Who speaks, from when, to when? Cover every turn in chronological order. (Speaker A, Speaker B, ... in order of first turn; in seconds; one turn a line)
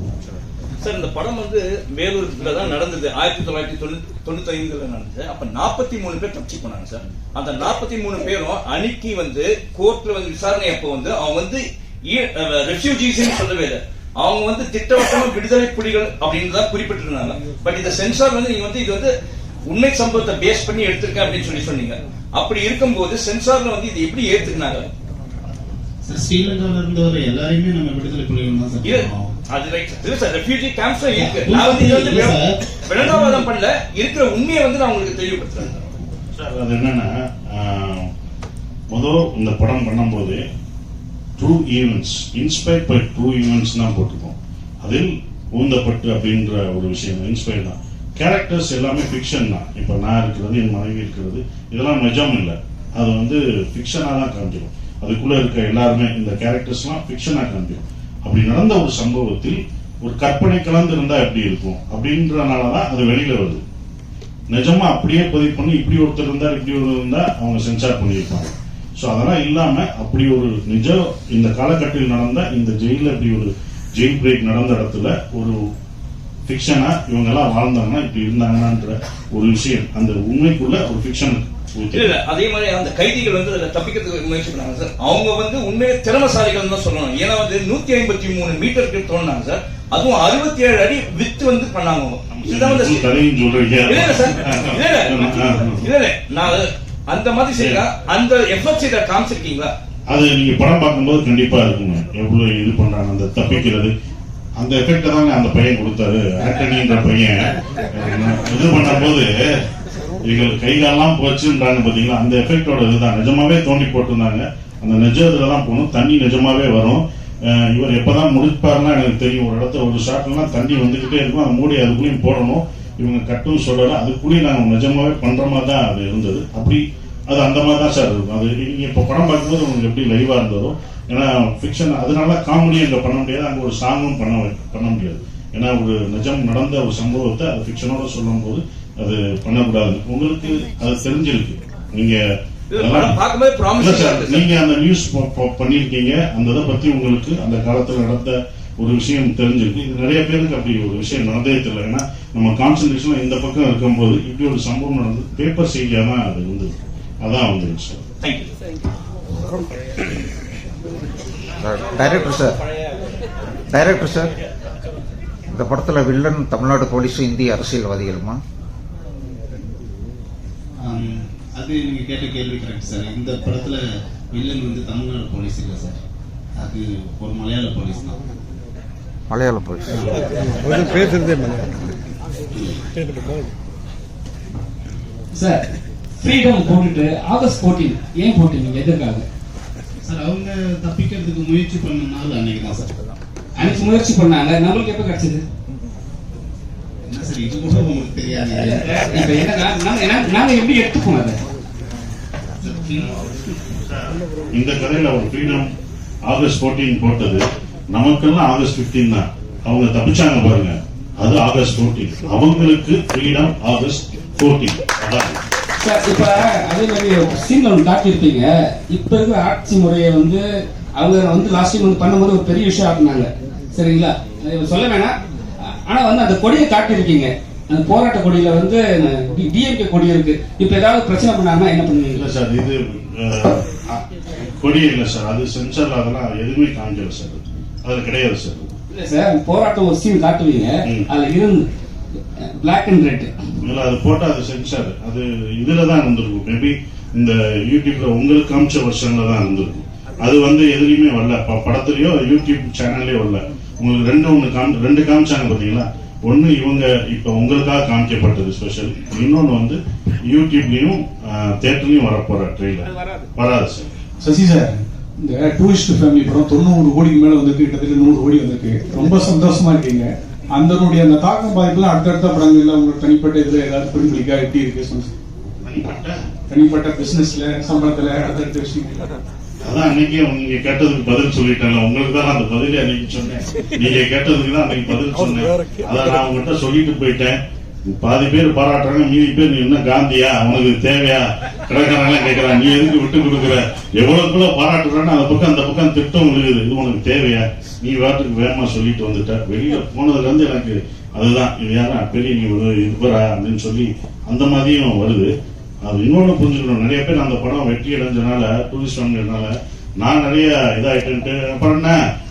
Speaker A: 0.8-19.1
Speaker A: 19.7-24.9
Speaker B: 26.1-29.3
Speaker A: 28.8-35.9
Speaker B: 31.1-33.4
Speaker C: 36.4-38.1
Speaker C: 38.9-40.4
Speaker C: 41.4-63.6
Speaker C: 64.5-75.6
Speaker C: 76.5-82.2
Speaker A: 81.9-93.1
Speaker C: 92.3-95.9
Speaker A: 93.9-99.7
Speaker C: 97.6-97.8
Speaker C: 100.1-103.9
Speaker C: 104.6-107.4
Speaker C: 107.9-109.3
Speaker C: 110.2-142.2
Speaker A: 142.7-144.5
Speaker C: 142.7-143.2
Speaker C: 143.8-158.0
Speaker A: 158.2-158.5
Speaker D: 161.6-162.6
Speaker D: 163.7-164.3
Speaker D: 165.5-168.4
Speaker B: 170.8-176.0
Speaker B: 176.6-178.2
Speaker D: 179.3-179.9
Speaker B: 179.9-180.2
Speaker E: 185.3-185.6
Speaker E: 186.2-189.2
Speaker B: 190.1-193.0
Speaker E: 193.6-195.4
Speaker B: 197.1-199.3
Speaker E: 198.6-201.4
Speaker B: 202.6-203.1
Speaker C: 203.9-205.7
Speaker C: 206.3-207.4
Speaker C: 207.9-215.4
Speaker E: 215.8-220.4
Speaker E: 221.0-225.1
Speaker E: 225.9-232.3
Speaker C: 232.2-234.1
Speaker C: 234.6-238.8
Speaker E: 238.9-241.7
Speaker E: 242.6-243.3
Speaker C: 243.6-263.9
Speaker A: 262.9-263.3
Speaker F: 264.2-275.1
Speaker C: 275.6-276.2
Speaker F: 276.5-279.1
Speaker C: 279.6-287.4
Speaker C: 287.9-305.3
Speaker C: 305.8-312.0